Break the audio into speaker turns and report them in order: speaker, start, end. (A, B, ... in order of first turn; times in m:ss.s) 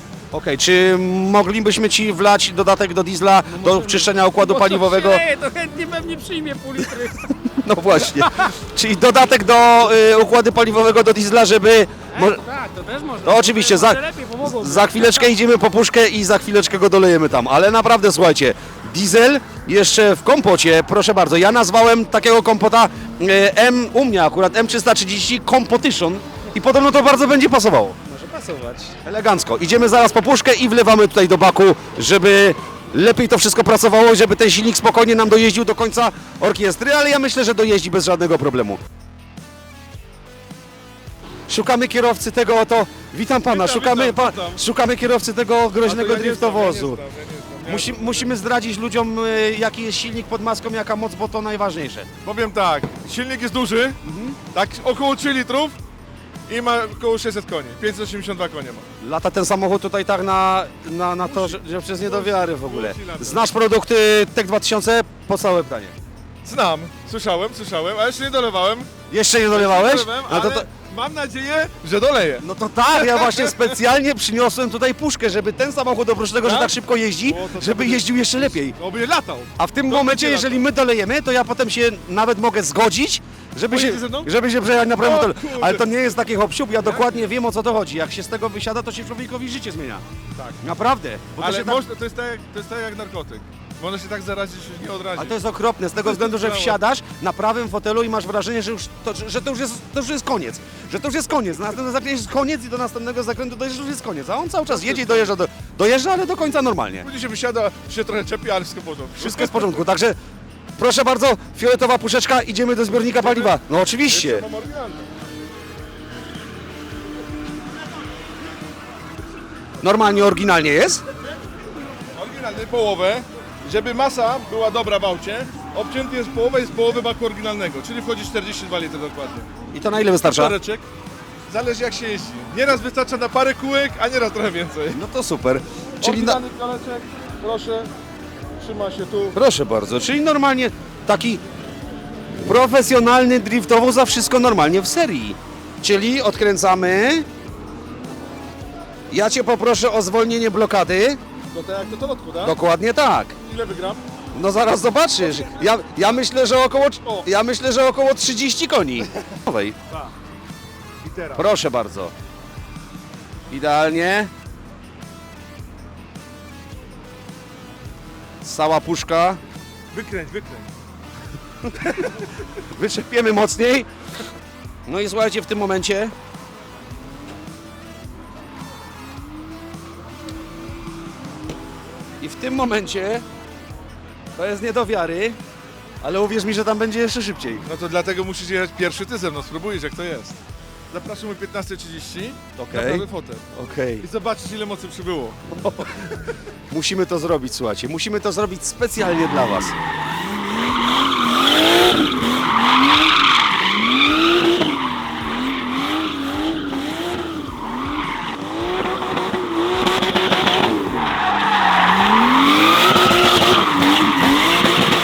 0:00.3-0:05.2 A
0:03.5-0:07.4 B
0:07.6-0:12.4 A
0:08.0-0:08.5 B
0:12.1-0:15.3 B
0:13.2-0:28.0 A
0:28.0-0:29.0 B
0:29.0-0:38.8 A
0:41.5-0:47.0 A
0:43.4-0:44.6 C
0:45.8-0:48.3 C
0:47.6-0:52.1 A
0:52.2-0:54.0 C
0:54.0-0:54.4 A
0:54.5-0:55.8 C
0:56.5-0:58.9 C
0:59.0-1:05.9 A
1:01.2-1:03.5 C
1:06.4-1:08.9 C
1:09.1-1:10.7 A
1:09.5-1:13.7 C
1:12.4-1:18.8 A
1:16.4-1:20.6 C
1:19.6-1:30.0 A
1:23.7-1:24.3 C
1:25.0-1:25.8 C
1:26.8-1:27.3 C
1:30.4-1:30.6 C
1:30.6-1:31.8 A
1:31.4-1:35.4 C
1:35.2-1:47.1 A
1:36.0-1:36.8 C
1:44.7-1:45.3 C
1:47.0-1:49.8 C
1:49.2-1:50.2 A
1:50.8-1:54.5 A
1:53.1-1:55.0 C
1:59.8-2:01.0 A
2:02.2-2:09.5 C
2:09.7-2:10.6 A
2:10.2-2:10.9 C
2:11.5-2:15.0 C
2:14.9-2:16.4 A
2:16.0-2:17.9 C
2:18.6-2:19.4 C
2:19.3-2:21.4 A
2:22.4-2:27.2 A
2:29.1-2:31.2 A
2:31.5-2:32.6 C
2:32.4-2:33.4 A
2:33.4-2:34.0 C
2:34.3-2:39.8 A
2:41.0-2:41.5 C
2:41.4-2:42.1 A
2:43.5-2:44.3 A
2:48.4-2:49.4 A
2:49.9-2:50.7 C
2:51.6-2:53.9 A
2:54.9-2:56.1 A
3:02.2-3:03.2 A
3:04.4-3:05.4 A
3:06.0-3:07.6 A
3:07.6-3:10.4 C
3:10.9-3:13.4 C
3:12.6-3:14.1 A
3:14.0-3:15.4 C
3:15.6-3:16.0 A
3:16.7-3:19.8 A